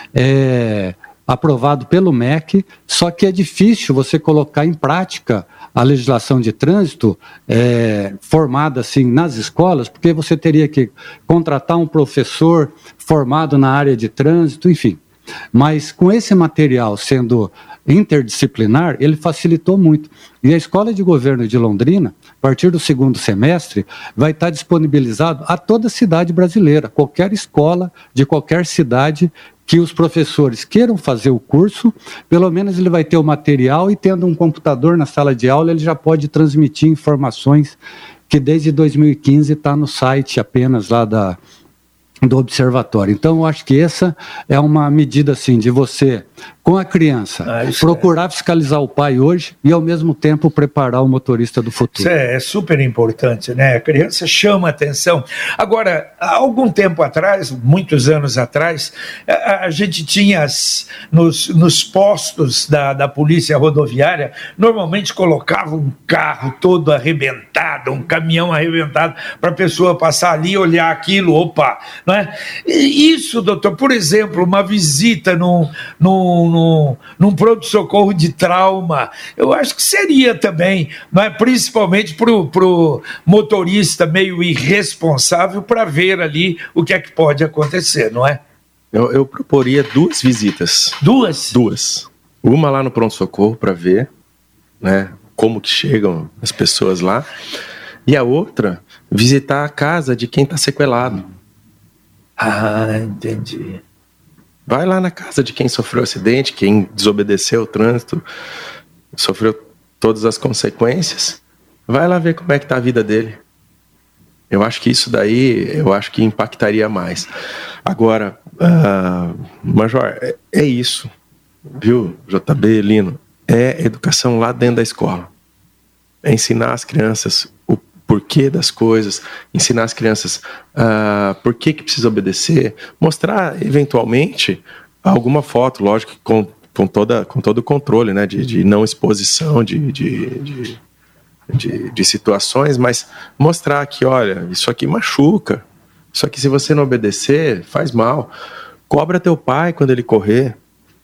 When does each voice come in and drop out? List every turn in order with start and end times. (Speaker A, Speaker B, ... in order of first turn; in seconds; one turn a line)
Speaker A: 0.1-15.0
Speaker A: 15.5-37.8
Speaker A: 38.3-41.4
Speaker A: 42.2-52.1
Speaker B: 47.5-48.0
Speaker B: 52.0-88.4
Speaker C: 88.9-91.0
Speaker B: 91.0-91.6
Speaker C: 91.5-94.1
Speaker C: 94.8-97.3
Speaker C: 98.0-101.3
Speaker B: 102.4-103.8
Speaker C: 104.7-108.2
Speaker C: 109.1-113.4
Speaker C: 114.5-117.3
Speaker C: 117.8-121.1
Speaker C: 121.8-125.3
Speaker C: 126.2-140.8
Speaker C: 141.5-148.3
Speaker C: 148.9-150.6